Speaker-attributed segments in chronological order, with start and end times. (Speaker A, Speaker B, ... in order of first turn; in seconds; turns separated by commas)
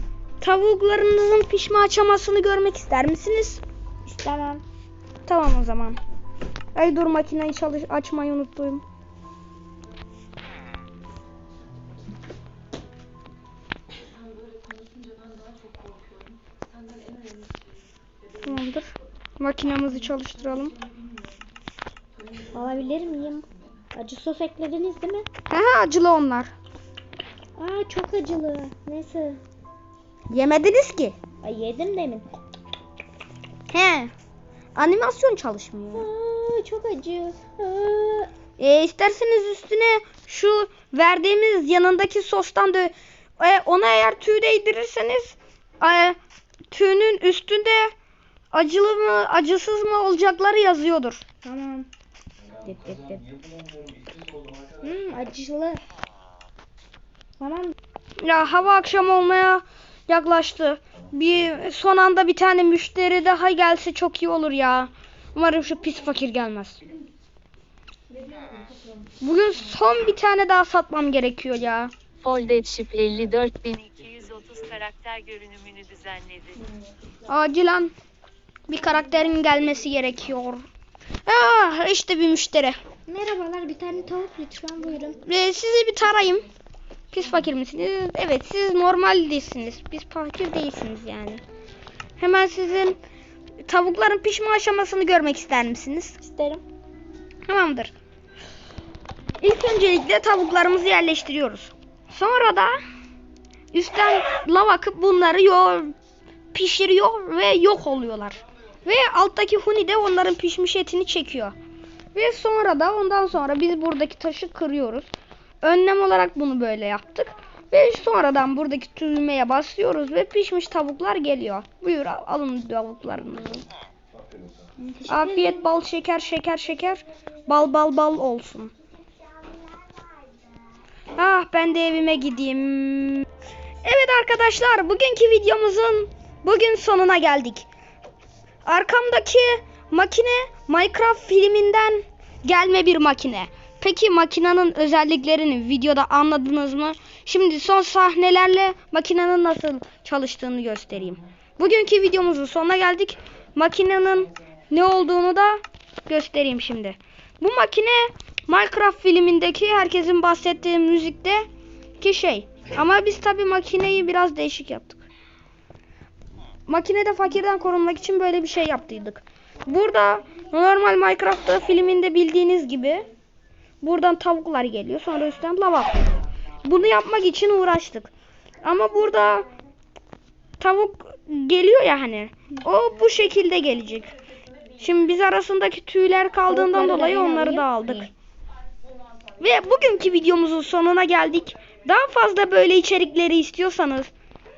Speaker A: 0.4-3.6, Speaker B: 4.0-4.6, Speaker A: 5.3-6.0, Speaker A: 6.8-8.8, Speaker A: 18.4-20.8, Speaker B: 22.5-25.3, Speaker A: 25.5-26.5, Speaker B: 27.6-29.4, Speaker A: 30.3-31.2, Speaker B: 31.4-32.3, Speaker A: 33.7-34.1, Speaker A: 34.8-36.1, Speaker B: 36.0-38.3, Speaker A: 38.6-46.2, Speaker A: 46.7-47.9, Speaker A: 48.5-51.2, Speaker B: 51.4-51.9, Speaker B: 52.6-53.3, Speaker B: 54.8-55.8, Speaker B: 57.4-57.7, Speaker A: 58.2-66.8, Speaker A: 69.2-71.9, Speaker C: 72.2-76.6, Speaker A: 77.3-77.9, Speaker A: 78.7-80.6, Speaker A: 81.3-82.8, Speaker B: 83.1-85.2, Speaker A: 85.2-86.5, Speaker A: 87.1-91.4, Speaker A: 92.2-93.0, Speaker A: 93.6-96.2, Speaker B: 96.2-96.6, Speaker A: 97.5-97.9, Speaker A: 99.4-102.8, Speaker A: 103.7-105.9, Speaker A: 106.5-111.5, Speaker A: 112.1-115.1, Speaker A: 115.6-123.7, Speaker B: 124.8-125.7, Speaker A: 125.1-128.7, Speaker A: 131.1-133.3, Speaker A: 133.8-137.7, Speaker A: 138.6-161.5, Speaker A: 162.0-165.0, Speaker A: 166.7-173.1, Speaker A: 173.8-176.0, Speaker A: 176.6-178.1, Speaker A: 178.6-179.5, Speaker A: 180.6-184.1, Speaker A: 184.8-188.1, Speaker B: 186.5-188.1, Speaker A: 189.4-194.1